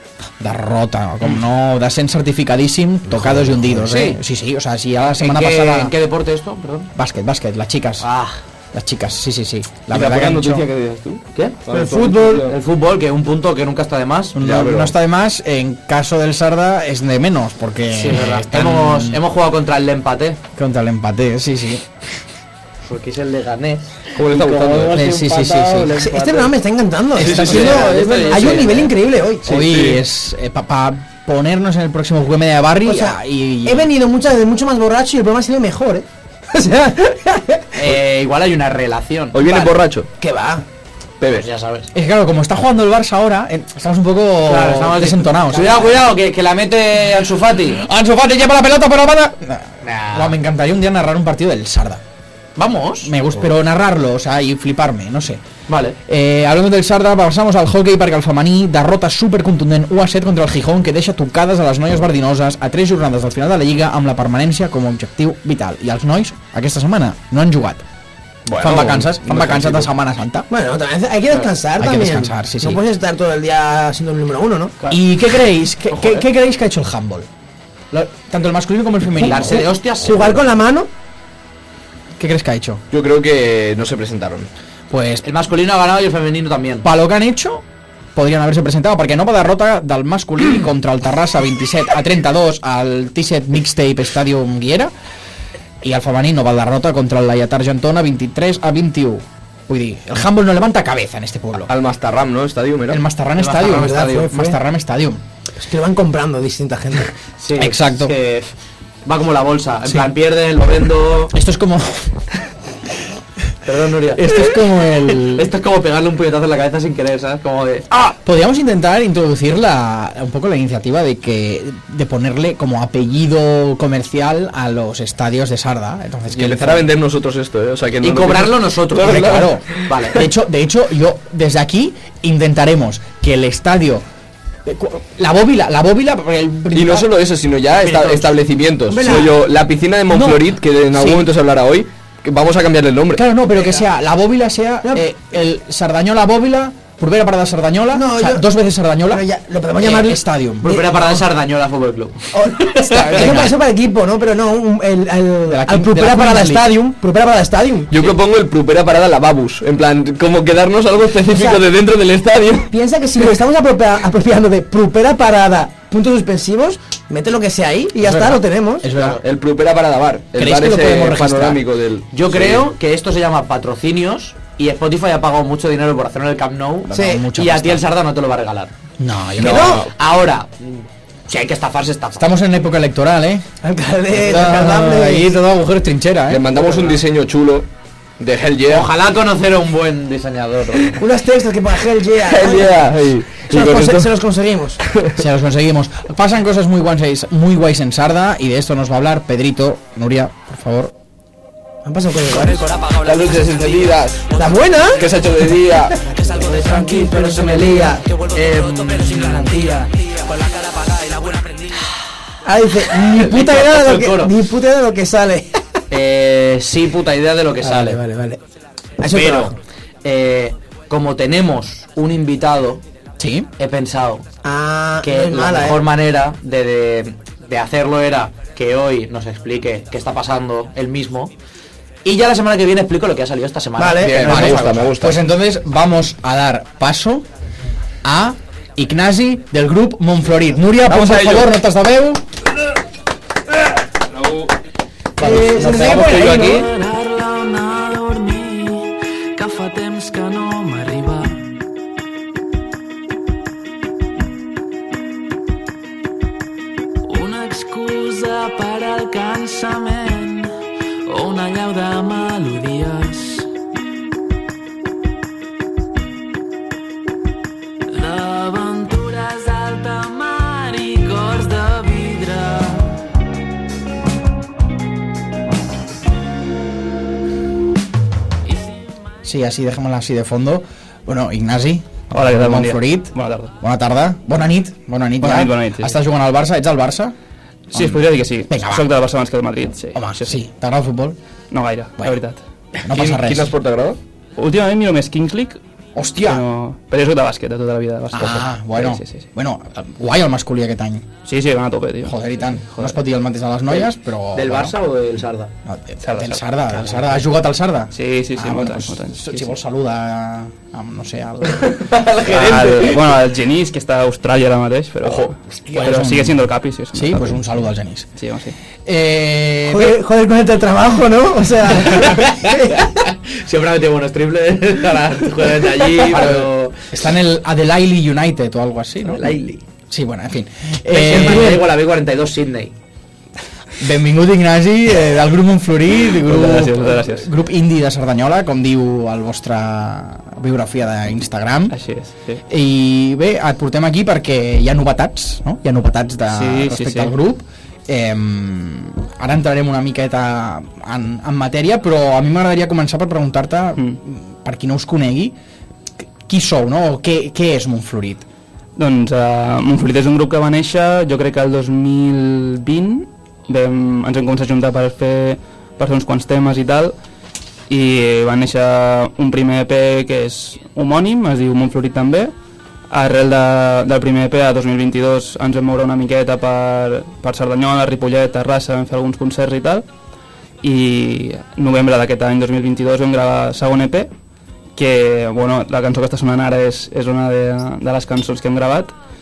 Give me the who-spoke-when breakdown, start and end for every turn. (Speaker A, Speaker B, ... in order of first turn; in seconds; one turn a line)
Speaker A: 0.4-6.0
Speaker B: 3.5-4.2
Speaker B: 5.1-6.9
Speaker A: 7.0-8.1
Speaker B: 8.0-8.4
Speaker A: 8.7-10.7
Speaker C: 9.9-12.6
Speaker B: 11.3-14.4
Speaker A: 14.3-19.2
Speaker C: 14.4-14.9
Speaker B: 17.9-20.4
Speaker A: 20.6-21.9
Speaker B: 22.9-26.6
Speaker C: 24.1-25.0
Speaker A: 24.9-26.0
Speaker D: 26.0-29.6
Speaker C: 27.1-28.8
Speaker A: 27.2-27.8
Speaker B: 27.3-28.9
Speaker C: 29.4-30.0
Speaker A: 29.4-33.9
Speaker D: 32.8-37.8
Speaker B: 37.8-39.7
Speaker C: 39.3-40.1
Speaker D: 40.2-40.6
Speaker C: 41.2-41.5
Speaker B: 41.3-41.9
Speaker A: 41.9-46.0
Speaker B: 44.5-47.8
Speaker A: 47.8-52.0
Speaker B: 49.8-50.4
Speaker B: 52.6-53.1
Speaker A: 53.0-55.4
Speaker B: 55.7-56.0
Speaker A: 56.1-67.8
Speaker C: 68.5-69.9
Speaker A: 68.6-70.5
Speaker D: 70.5-74.8
Speaker A: 71.8-72.8
Speaker A: 74.9-77.3
Speaker B: 75.9-76.2
Speaker A: 77.9-79.7
Speaker B: 79.2-80.4
Speaker D: 79.3-80.9
Speaker A: 82.2-82.8
Speaker C: 82.9-84.5
Speaker A: 84.9-85.2
Speaker B: 85.2-86.9
Speaker A: 86.8-87.6
Speaker A: 88.1-94.9
Speaker A: 95.8-101.7
Speaker C: 101.7-103.0
Speaker A: 102.9-105.2
Speaker B: 103.4-104.3
Speaker D: 103.6-104.6
Speaker D: 105.6-107.1
Speaker B: 107.4-108.5
Speaker A: 107.6-108.1
Speaker B: 109.0-111.3
Speaker A: 111.3-112.2
Speaker B: 113.6-114.4
Speaker A: 114.1-115.5
Speaker B: 115.2-117.9
Speaker A: 117.9-126.9
Speaker C: 126.3-129.9
Speaker B: 128.0-130.2
Speaker A: 129.0-134.1
Speaker A: 134.6-137.1
Speaker C: 136.7-143.2
Speaker B: 137.8-138.3
Speaker D: 138.9-139.4
Speaker A: 140.1-141.2
Speaker A: 143.1-149.2
Speaker D: 147.9-148.5
Speaker D: 149.1-151.1
Speaker B: 149.8-150.1
Speaker A: 149.8-150.9
Speaker B: 150.6-153.5
Speaker D: 152.3-158.0
Speaker A: 152.9-153.6
Speaker A: 155.5-156.7
Speaker C: 157.9-162.7
Speaker D: 161.3-161.6
Speaker D: 162.7-168.9
Speaker A: 168.0-169.2
Speaker C: 169.2-172.7
Speaker A: 170.4-171.6
Speaker B: 172.1-178.7
Speaker A: 176.8-177.9
Speaker D: 176.9-177.2
Speaker A: 179.0-179.8
Speaker C: 179.4-179.9
Speaker D: 179.4-179.9
Speaker B: 179.8-182.3
Speaker A: 182.2-183.4
Speaker D: 183.6-185.3
Speaker A: 184.1-186.6
Speaker C: 186.3-187.7
Speaker B: 186.6-187.0
Speaker C: 188.2-188.9
Speaker B: 188.7-191.0
Speaker D: 191.0-194.8
Speaker C: 192.2-194.1
Speaker C: 194.9-195.2
Speaker A: 195.2-200.9
Speaker D: 201.8-202.7
Speaker C: 203.0-206.0
Speaker D: 204.4-205.0
Speaker D: 206.3-208.0
Speaker B: 206.5-209.9
Speaker E: 210.4-211.5
Speaker D: 212.4-215.6
Speaker B: 213.2-214.3
Speaker B: 215.9-218.0
Speaker D: 217.6-218.4
Speaker D: 219.0-219.6
Speaker B: 219.1-222.8
Speaker A: 223.2-223.5
Speaker B: 223.6-224.2
Speaker D: 224.4-225.8
Speaker B: 225.0-231.3
Speaker B: 232.0-235.0
Speaker D: 233.8-234.5
Speaker C: 234.0-235.2
Speaker A: 234.3-237.2
Speaker A: 238.0-242.2
Speaker C: 240.9-241.5
Speaker D: 245.2-246.7
Speaker A: 245.2-246.6
Speaker C: 245.6-246.6
Speaker E: 246.7-251.4
Speaker F: 257.1-258.1
Speaker E: 257.1-260.5
Speaker F: 259.6-260.3
Speaker F: 261.1-263.3
Speaker E: 261.1-263.4
Speaker F: 268.0-269.3
Speaker E: 268.0-272.8
Speaker F: 270.8-271.3
Speaker A: 279.2-287.1
Speaker F: 282.1-283.5
Speaker F: 285.2-286.0
Speaker A: 287.7-288.9
Speaker F: 287.7-290.4
Speaker A: 289.9-291.2
Speaker F: 291.5-292.4
Speaker A: 292.8-293.5
Speaker C: 292.9-294.0
Speaker F: 294.4-295.6
Speaker A: 295.9-296.4
Speaker F: 296.2-299.2
Speaker A: 298.1-301.1
Speaker F: 301.2-303.0
Speaker A: 302.0-304.8
Speaker B: 303.7-305.5
Speaker A: 305.7-311.8
Speaker F: 306.0-306.5
Speaker F: 307.9-309.5
Speaker C: 311.6-313.0
Speaker F: 312.2-317.5
Speaker C: 315.0-316.0
Speaker A: 315.7-316.4
Speaker A: 316.9-318.1
Speaker F: 318.2-318.6
Speaker A: 318.8-320.0
Speaker D: 319.7-322.9
Speaker B: 322.1-326.8
Speaker A: 326.0-329.4
Speaker B: 329.0-329.6
Speaker A: 329.9-331.7
Speaker B: 330.9-332.7
Speaker A: 333.8-341.8
Speaker F: 336.2-337.3
Speaker F: 341.7-342.4
Speaker A: 342.5-355.4
Speaker F: 346.3-347.1
Speaker A: 356.0-358.2
Speaker F: 358.8-366.9
Speaker F: 367.7-372.3
Speaker F: 372.9-379.8
Speaker F: 380.6-384.1
Speaker F: 384.8-388.9